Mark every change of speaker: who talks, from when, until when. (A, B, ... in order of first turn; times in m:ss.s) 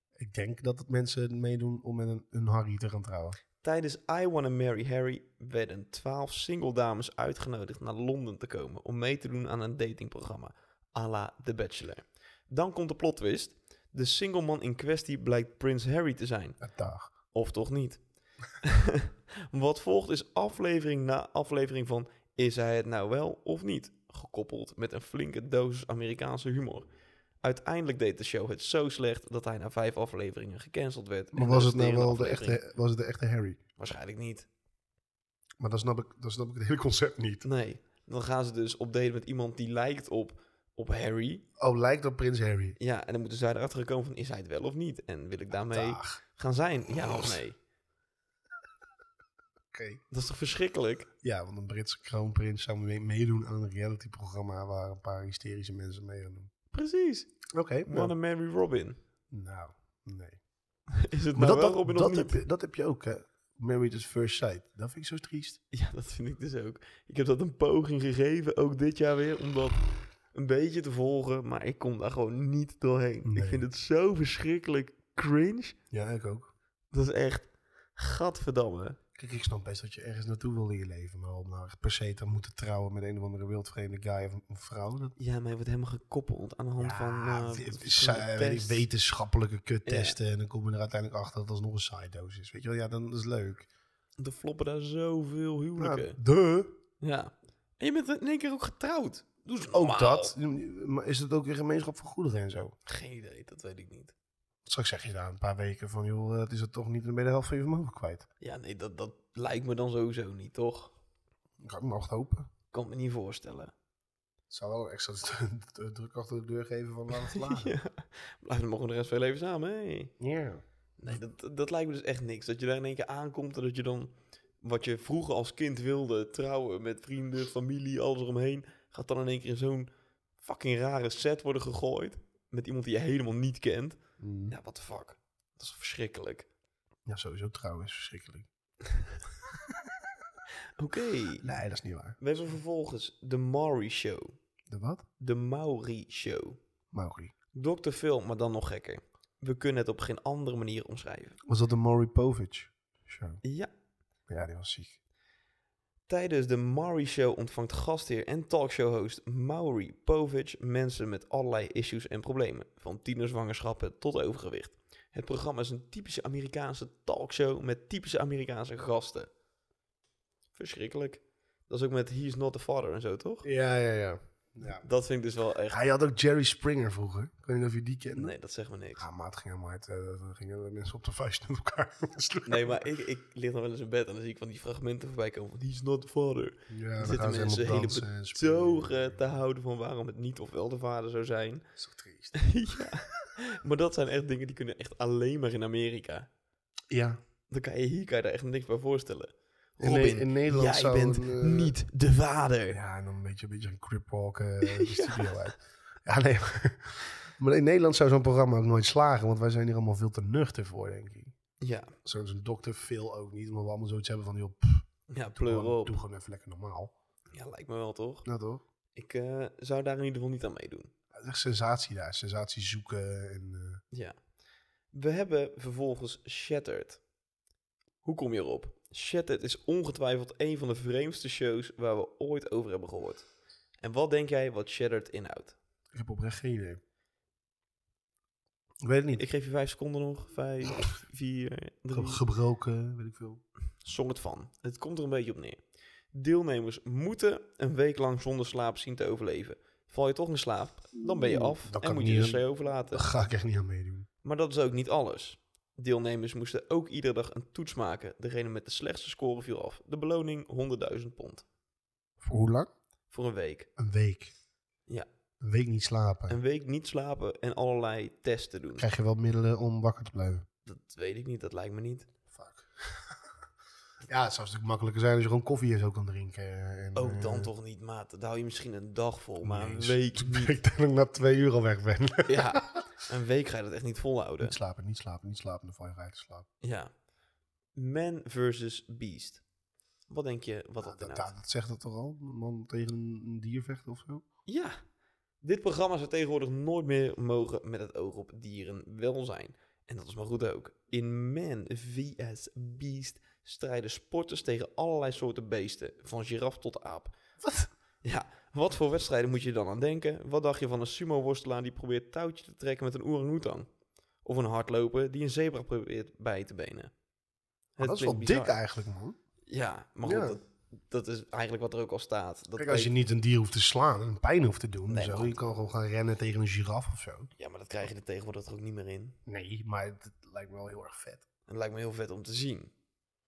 0:00.2-0:03.4 A
0:03.6-0:16.6 B
0:16.6-0:17.1 A
0:17.3-0:18.0 B
0:18.6-0:26.9 B
0:27.4-0:32.6 B
0:31.3-0:33.6 A
0:33.8-0:34.5 B
0:35.6-0:37.4 A
0:37.4-0:41.4 B
0:41.6-0:42.8 A
0:42.8-0:47.6 B
0:45.7-0:46.2 A
0:49.7-0:50.0 A
0:50.1-0:51.1 B
0:51.2-0:56.5 A
0:56.7-0:57.3 B
0:57.5-0:58.2 A
0:57.9-0:59.0 B
0:59.3-1:00.4 A
1:01.0-1:02.4 B
1:01.3-1:05.6 A
1:05.7-1:15.8 B
1:13.2-1:13.6 A
1:15.9-1:16.5 A
1:16.9-1:19.0 B
1:19.2-1:25.2 A
1:25.2-1:28.9 B
1:26.8-1:33.7 A
1:29.9-1:30.2 B
1:34.2-1:36.2 B
1:35.8-1:36.8 A
1:37.0-1:40.3 B
1:39.6-1:42.8 A
1:42.9-1:44.1 B
1:44.6-1:48.2 A
1:48.4-1:50.9 B
1:51.6-1:52.5 A
1:52.7-1:53.7 B
1:54.5-1:57.8 A
1:57.2-2:00.1 B
2:00.2-2:01.2 A
2:01.0-2:16.5 B
2:14.2-2:14.6 A
2:17.1-2:18.5 A
2:19.5-2:20.1 A
2:20.8-2:21.4 B
2:21.4-2:22.2 A
2:22.2-2:24.4 B
2:24.7-2:25.0 A
2:25.2-2:26.6 B
2:26.9-2:27.3 A
2:27.5-2:31.4 B
2:31.5-2:33.4 A
2:33.4-2:33.7 B
2:34.3-2:35.0 A
2:36.1-2:49.3 B
2:50.6-2:53.5 B
2:53.4-2:54.9 A
2:54.8-2:55.8 B
2:55.7-2:58.3 A
2:58.2-2:59.1 B
2:59.0-3:02.8 A
3:02.5-3:11.7 B
3:06.7-3:09.2 A
3:11.8-3:13.0 A
3:12.3-3:16.3 B
3:16.9-3:17.2 A
3:17.5-3:22.8 B
3:19.8-3:21.7 A
3:22.7-3:31.4 A
3:24.6-3:25.5 B
3:31.6-3:31.9 B
3:32.0-3:36.9 A
3:35.1-3:36.0 B
3:37.3-3:38.3 B
3:38.2-3:38.6 A
3:39.0-3:40.9 B
3:41.1-3:43.8 A
3:43.9-3:44.2 B
3:44.9-3:47.0 B
3:48.0-3:53.3 B
3:53.8-3:55.6 B
3:55.9-3:56.8 A
3:58.8-3:59.2 A
3:59.2-4:02.2 B
4:01.9-4:03.4 A
4:03.8-4:05.6 B
4:06.1-4:13.1 B
4:11.2-4:14.1 A
4:14.2-4:21.5 B
4:22.2-4:22.7 A
4:23.1-4:23.7 B
4:23.8-4:24.3 A
4:25.4-4:26.4 A
4:26.3-4:28.9 B
4:28.8-4:30.4 A
4:30.6-4:32.1 B
4:32.3-4:33.2 A
4:34.1-4:37.5 A
4:37.0-4:40.6 B
4:39.4-4:42.8 A
4:42.3-4:44.6 B
4:44.4-4:46.5 A
4:46.6-4:46.9 B
4:47.8-4:49.4 B
4:50.1-4:51.3 B
4:50.8-4:54.2 A
4:54.5-4:54.8 B
4:55.4-5:07.1 B
5:07.4-5:07.7 A
5:08.0-5:13.7 B
5:14.2-5:16.9 B
5:17.8-5:18.6 B
5:17.8-5:19.2 A
5:19.5-5:22.9 B
5:20.0-5:20.4 A
5:22.6-5:27.3 A
5:24.9-5:25.4 B
5:27.4-5:29.2 B
5:29.3-5:31.2 A
5:31.5-5:32.7 B